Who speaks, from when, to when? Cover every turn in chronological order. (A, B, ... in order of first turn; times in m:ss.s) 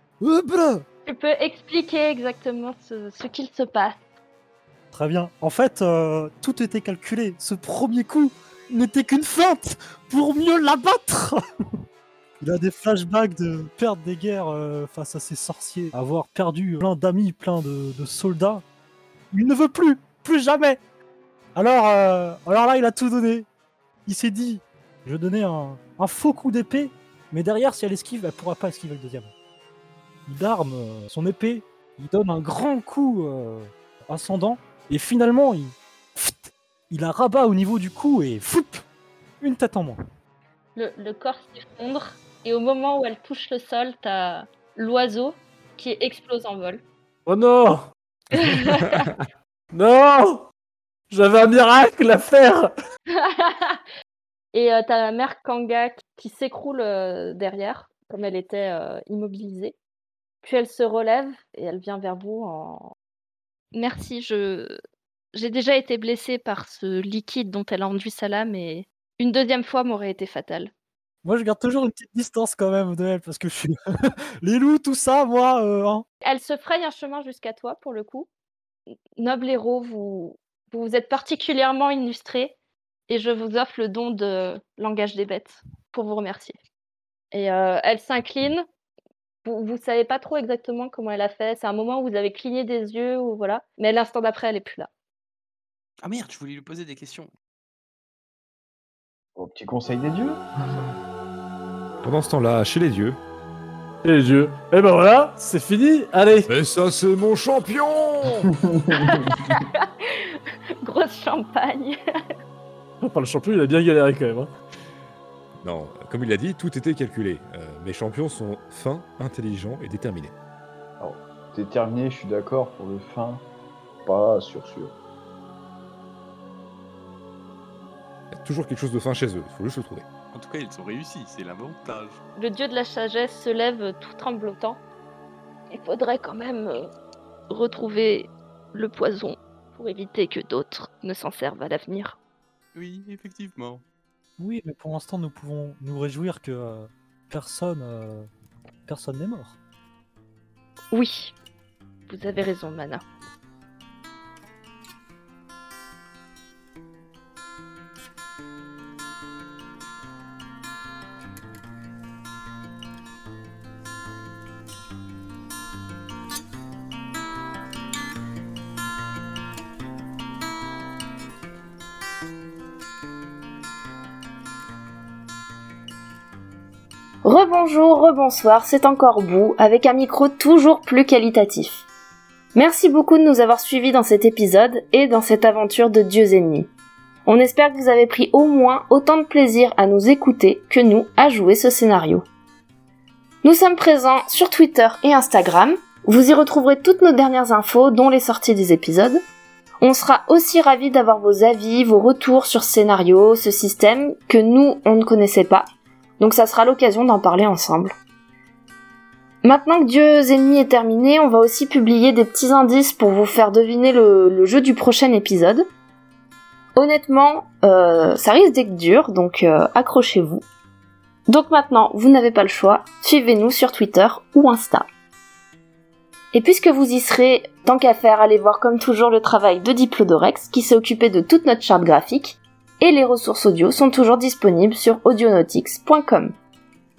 0:00.2-0:00.8 A
0:01.0-0:04.0 B
0:04.9-0:11.4 A
0:12.4-0:18.6 A
0:19.3-0:20.8 A
0:21.6-0:23.5 A
0:24.0-0:29.3 A
0:30.3-0:38.8 A
0:39.4-0:40.0 A
0:40.8-0:46.8 B
0:47.3-0:47.9 C
0:48.3-0:49.1 B
0:49.7-0:50.5 C
0:51.1-0:52.7 C
0:53.1-0:53.8 B
0:54.5-0:59.8 B
1:00.4-1:02.9 B
1:03.7-1:04.8 B
1:05.3-1:10.7 B
1:11.2-1:16.0 A
1:16.2-1:18.3 B
1:19.2-1:22.6 B
1:23.1-1:26.6 B
1:27.3-1:28.6 B
1:29.4-1:34.9 B
1:36.0-1:37.3 D
1:39.4-1:40.4 E
1:42.0-1:43.2 F
1:44.0-1:46.5 C
1:46.5-1:48.5 F
1:48.7-1:49.4 E
1:49.3-1:52.0 B
1:53.0-1:54.5 C
1:55.6-2:00.3 F
2:01.0-2:03.5 E
2:04.0-2:04.9 E
2:08.3-2:10.0 F
2:10.3-2:12.2 D
2:12.4-2:14.8 B
2:15.7-2:16.9 B
2:17.5-2:22.2 B
2:22.7-2:23.8 D
2:24.4-2:28.3 A
2:28.9-2:29.6 A
2:30.9-2:31.3 B
2:32.1-2:33.0 B
2:57.2-3:01.8 G
3:02.6-3:06.7 G
3:07.3-3:12.3 G
3:13.4-3:19.2 G
3:19.8-3:25.7 G
3:26.2-3:28.0 G
3:29.4-3:35.6 G
3:36.8-3:40.4 G
3:41.3-3:44.9 G
3:46.3-3:56.4 G